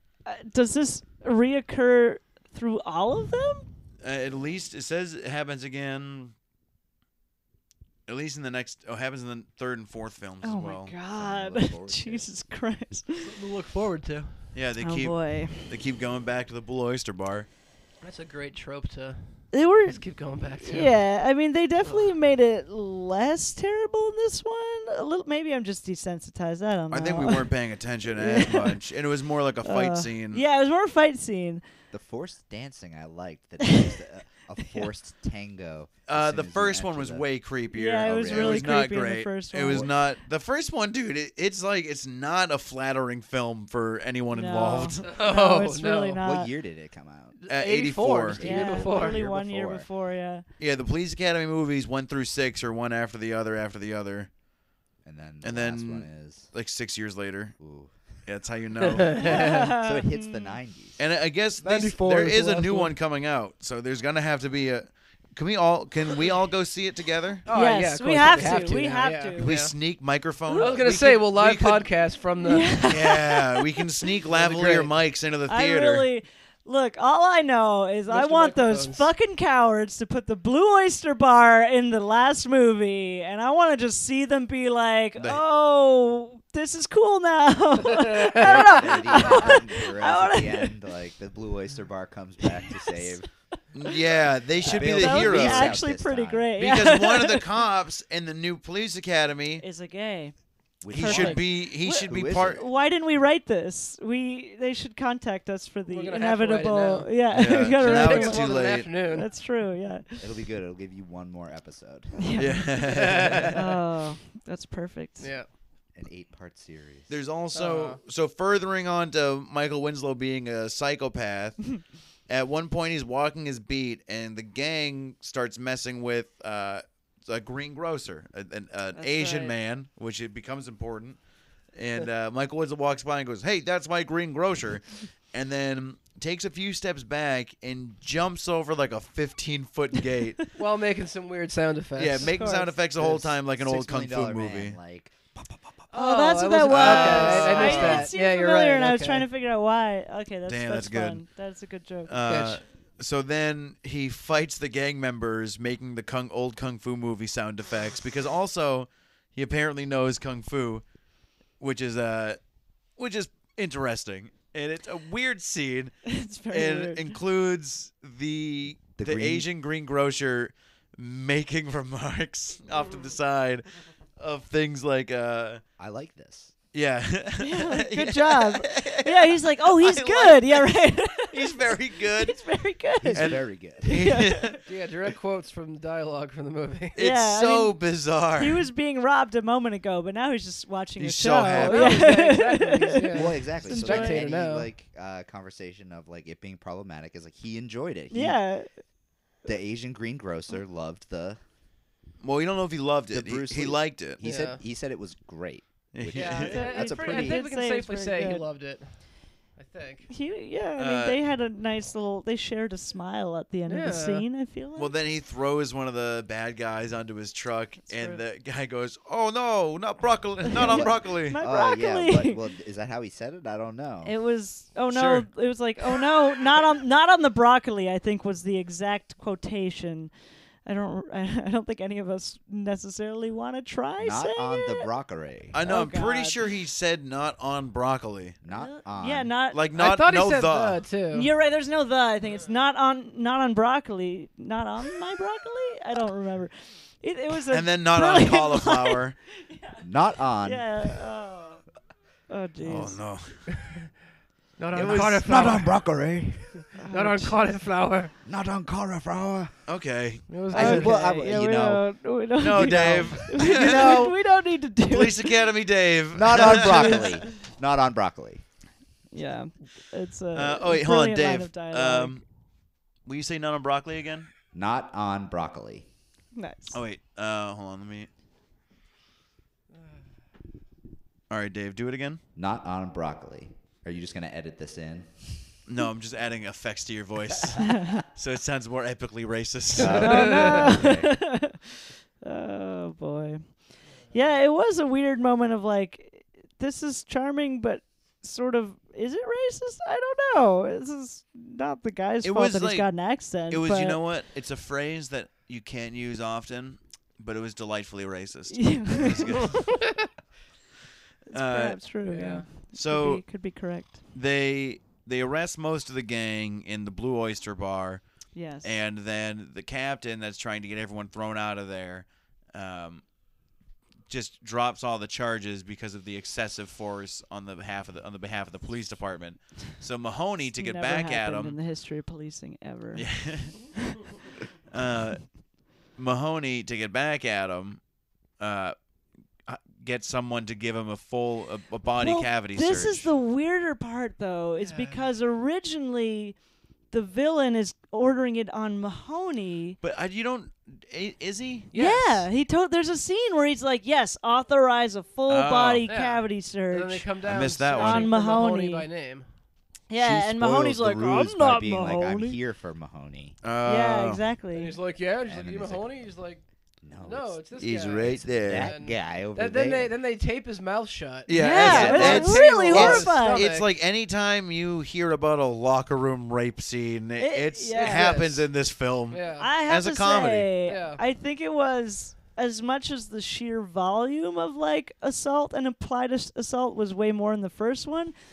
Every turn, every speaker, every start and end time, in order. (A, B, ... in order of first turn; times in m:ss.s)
0:00.3-0:03.7 A
0:04.0-0:06.3 B
0:08.1-0:10.9 B
0:10.4-0:13.4 A
0:11.1-0:12.3 C
0:13.2-0:14.5 D
0:14.5-0:17.5 B
0:14.8-0:15.7 A
0:18.0-0:21.1 D
0:19.5-0:20.0 A
0:20.6-0:27.5 A
0:21.8-0:22.1 D
0:26.9-0:30.4 B
0:28.1-0:28.8 A
0:29.6-0:31.6 A
0:31.9-0:37.3 C
0:34.6-0:34.9 A
0:36.1-0:45.1 B
0:37.7-0:40.0 A
0:38.0-0:38.8 C
0:44.3-0:46.5 A
0:45.0-0:46.2 D
0:46.2-0:47.5 C
0:47.4-0:49.2 D
0:47.5-0:48.4 B
0:48.3-0:49.9 C
0:48.4-0:50.4 A
0:50.6-0:54.3 B
0:55.0-0:56.5 C
0:55.4-0:57.6 B
0:57.6-0:58.2 C
0:58.2-0:59.3 B
0:58.9-0:59.7 D
0:59.2-1:00.6 A
0:59.5-1:01.0 C
1:01.0-1:07.5 B
1:01.6-1:02.9 D
1:07.5-1:09.7 D
1:07.5-1:09.6 A
1:08.3-1:08.6 B
1:09.4-1:11.9 B
1:10.5-1:10.8 A
1:10.6-1:12.8 D
1:12.4-1:13.8 A
1:12.9-1:16.1 B
1:14.3-1:14.9 D
1:15.5-1:30.8 A
1:18.1-1:19.1 D
1:27.9-1:29.4 D
1:28.4-1:33.3 C
1:32.9-1:33.1 A
1:33.7-1:35.8 B
1:34.6-1:36.5 C
1:34.7-1:37.4 A
1:36.6-1:39.6 B
1:39.6-1:50.3 A
1:40.8-1:42.6 C
1:40.9-1:42.6 B
1:45.9-1:49.3 D
1:47.3-1:48.9 B
1:50.2-1:52.8 C
1:52.2-1:52.7 A
1:52.4-1:53.5 B
1:52.8-1:53.6 D
1:53.5-1:55.3 A
1:55.2-1:55.5 D
1:55.9-1:57.2 C
1:57.1-2:11.2 B
1:57.5-1:58.0 D
2:09.0-2:09.6 A
2:11.7-2:20.5 B
2:20.6-2:23.3 D
2:22.0-2:24.8 B
2:22.3-2:22.7 A
2:23.4-2:25.7 C
2:25.9-2:29.3 D
2:25.9-2:32.2 A
2:26.7-2:28.1 B
2:30.5-2:31.2 B
2:32.1-2:40.8 B
2:32.2-2:32.6 D
2:41.6-2:42.4 B
2:43.0-2:53.7 B
2:46.0-2:47.2 A
2:49.0-2:49.5 C
2:54.2-2:55.6 B
2:55.8-2:56.5 C
2:56.7-3:02.4 B
2:57.4-3:01.6 A
3:02.2-3:04.5 A
3:03.0-3:04.1 C
3:03.2-3:04.7 B
3:04.7-3:07.0 D
3:07.0-3:08.7 B
3:07.0-3:07.8 A
3:08.4-3:14.2 A
3:11.0-3:12.2 B
3:11.6-3:14.7 D
3:13.1-3:18.4 C
3:18.1-3:18.8 A
3:19.4-3:21.4 C
3:22.2-3:24.2 B
3:23.1-3:27.4 C
3:24.2-3:24.6 D
3:25.9-3:26.7 B
3:26.1-3:30.1 D
3:26.5-3:28.5 A
3:30.1-3:34.9 A
3:30.8-3:31.2 B
3:33.7-3:34.3 D
3:34.8-3:41.4 B
3:37.9-3:38.2 A
3:40.5-3:42.4 A
3:40.6-3:44.1 C
3:44.0-3:50.1 A
3:44.9-3:45.3 B
3:50.6-3:54.9 A
3:54.0-3:55.6 C
3:55.5-3:58.4 B
3:55.6-3:56.4 A
3:58.4-3:59.3 C
3:58.5-3:59.6 A
3:59.5-4:00.9 B
3:59.7-4:01.3 D
4:01.1-4:09.8 A
4:07.5-4:09.2 B
4:09.8-4:11.0 C
4:10.4-4:11.6 A
4:12.3-4:13.0 A
4:12.6-4:13.7 B
4:14.6-4:15.8 D
4:14.7-4:15.5 B
4:14.8-4:16.8 C
4:16.8-4:17.3 A
4:16.9-4:18.1 D
4:18.2-4:19.6 C
4:19.7-4:20.9 B
4:20.3-4:21.2 D
4:20.5-4:22.0 C
4:20.5-4:25.4 A
4:22.4-4:24.1 B
4:22.5-4:24.1 C
4:24.9-4:27.2 B
4:26.1-4:28.4 C
4:26.6-4:27.0 A
4:29.1-4:32.2 A
4:30.3-4:32.3 B
4:33.0-4:34.3 B
4:34.5-4:35.9 C
4:36.4-4:36.8 A
4:36.7-4:38.1 B
4:41.3-4:42.2 B
4:42.4-4:45.5 C
4:45.7-4:50.5 B
4:47.7-4:48.0 A
4:49.8-4:51.2 C
4:50.0-5:04.0 A
4:50.0-4:50.5 D
5:02.2-5:09.9 B
5:08.5-5:09.6 A
5:11.3-5:11.8 B
5:11.3-5:14.0 A
5:12.0-5:12.5 D
5:12.7-5:23.1 B
5:18.3-5:18.7 A
5:24.1-5:31.6 B
5:30.6-5:33.3 A
5:32.9-5:33.6 B
5:34.7-5:37.8 B
5:38.4-5:38.8 B
5:39.5-5:43.1 B
5:42.0-5:46.4 A
5:44.6-5:45.0 D
5:46.9-5:49.8 A
5:49.8-5:51.7 B
5:51.7-5:52.2 D
5:51.7-5:57.1 A
5:55.3-5:55.8 B
5:55.9-5:59.3 D
5:57.2-5:58.1 B
5:57.7-5:58.9 A
5:59.9-6:02.4 A
6:00.0-6:03.4 C
6:03.4-6:04.2 B
6:03.6-6:04.8 A
6:04.5-6:06.4 D
6:05.2-6:06.1 C
6:06.8-6:09.9 C
6:07.0-6:13.7 D
6:07.6-6:08.8 B
6:11.3-6:20.5 B
6:11.3-6:13.5 A
6:11.6-6:12.3 C
6:17.2-6:18.2 A
6:17.8-6:18.5 D
6:19.1-6:19.5 D
6:19.4-6:28.1 A
6:20.7-6:21.0 D